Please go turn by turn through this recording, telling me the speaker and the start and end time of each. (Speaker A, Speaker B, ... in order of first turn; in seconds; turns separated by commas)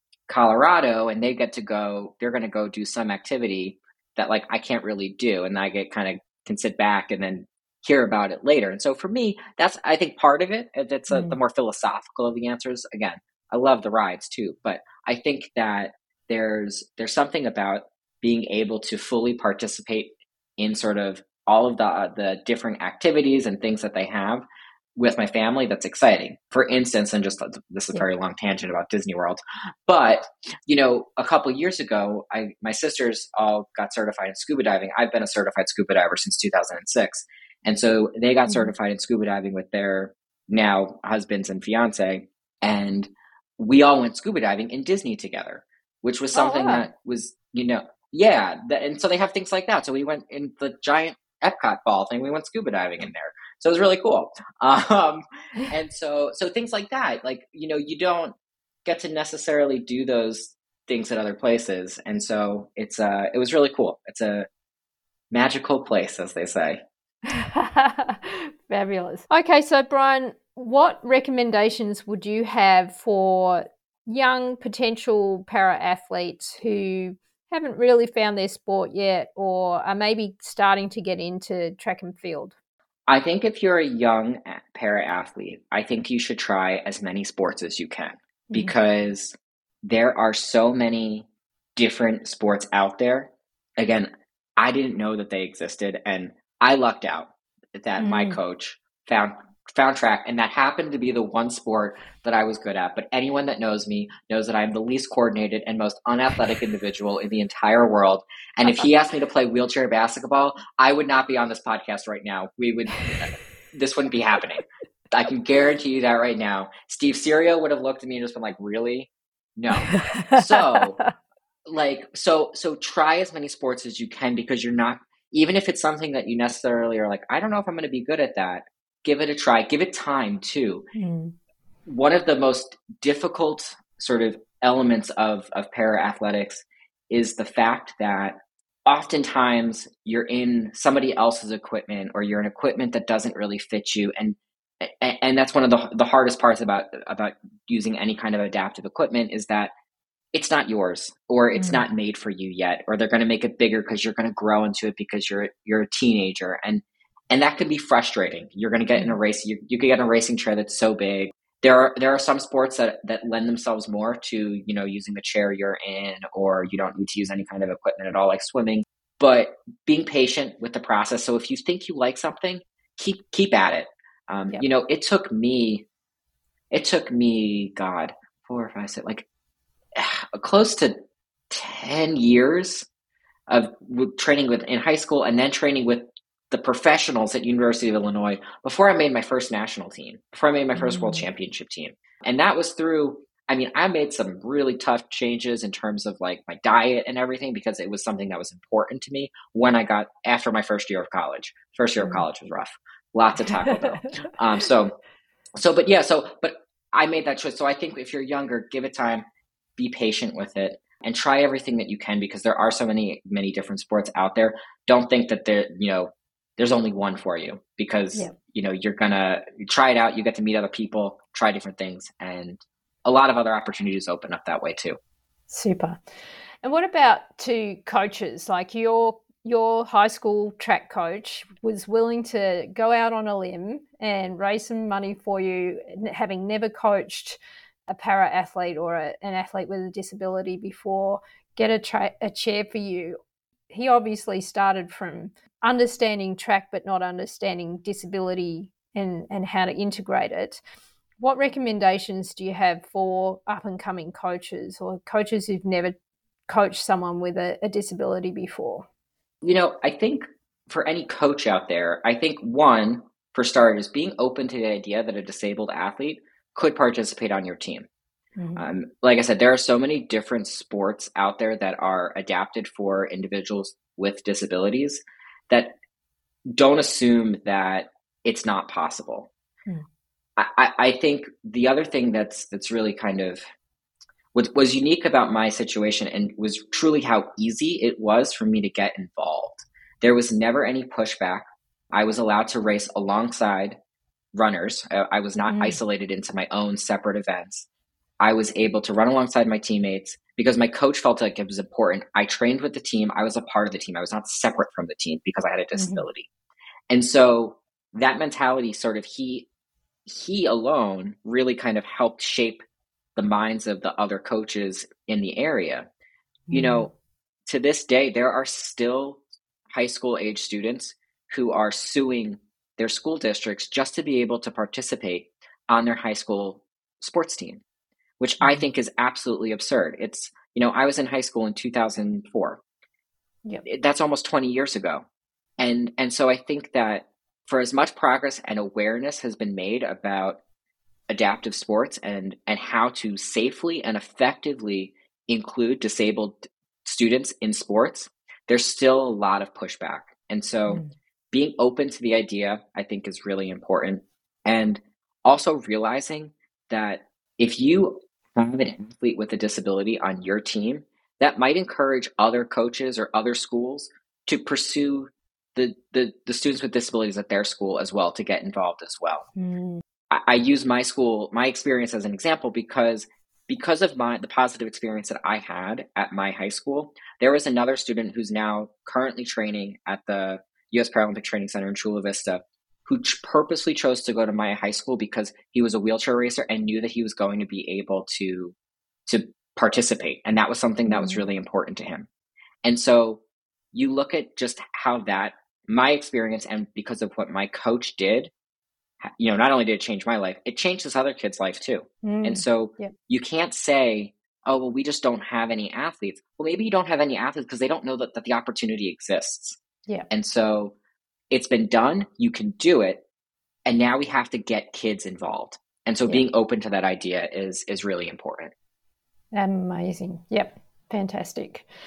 Speaker A: 0.3-64.5, Speaker B: 11.1-11.4, Speaker B: 38.5-38.7, Speaker B: 46.3-46.9, Speaker A: 65.3-66.8, Speaker B: 67.3-82.5, Speaker A: 83.1-121.0, Speaker B: 88.5-88.7, Speaker B: 98.0-98.4, Speaker B: 119.9-121.1, Speaker A: 121.7-130.9, Speaker B: 130.9-131.3, Speaker A: 131.8-149.7, Speaker A: 150.3-175.8, Speaker B: 151.5-151.8, Speaker A: 176.7-179.2, Speaker A: 179.9-180.9, Speaker A: 181.5-182.9, Speaker A: 183.5-204.9, Speaker B: 190.8-191.2, Speaker B: 202.0-202.2, Speaker B: 203.4-204.1, Speaker A: 205.6-209.2, Speaker A: 209.8-225.0, Speaker B: 225.5-226.0, Speaker B: 226.6-243.2, Speaker B: 243.7-250.6, Speaker B: 251.2-255.9, Speaker B: 256.5-258.9, Speaker A: 259.4-267.9, Speaker B: 268.4-268.6, Speaker A: 268.6-275.7, Speaker A: 276.5-279.3, Speaker A: 280.4-283.4, Speaker A: 284.3-293.8, Speaker A: 294.3-297.7, Speaker B: 295.5-295.8, Speaker A: 298.2-306.3, Speaker B: 305.7-306.1, Speaker A: 306.9-309.5, Speaker A: 310.1-312.6, Speaker A: 313.1-315.9, Speaker B: 316.5-316.9, Speaker A: 316.5-316.9, Speaker A: 317.4-327.6, Speaker A: 328.2-332.6, Speaker B: 328.4-328.6, Speaker A: 333.6-335.0, Speaker A: 335.6-340.4, Speaker A: 341.1-369.3, Speaker B: 369.4-369.8, Speaker A: 370.1-388.5, Speaker A: 389.1-392.1, Speaker B: 390.9-391.2, Speaker A: 392.6-393.2, Speaker A: 393.7-398.3, Speaker A: 399.0-409.6, Speaker B: 402.0-402.9, Speaker A: 410.1-410.8, Speaker A: 411.3-413.0, Speaker A: 413.6-418.5, Speaker B: 419.3-421.6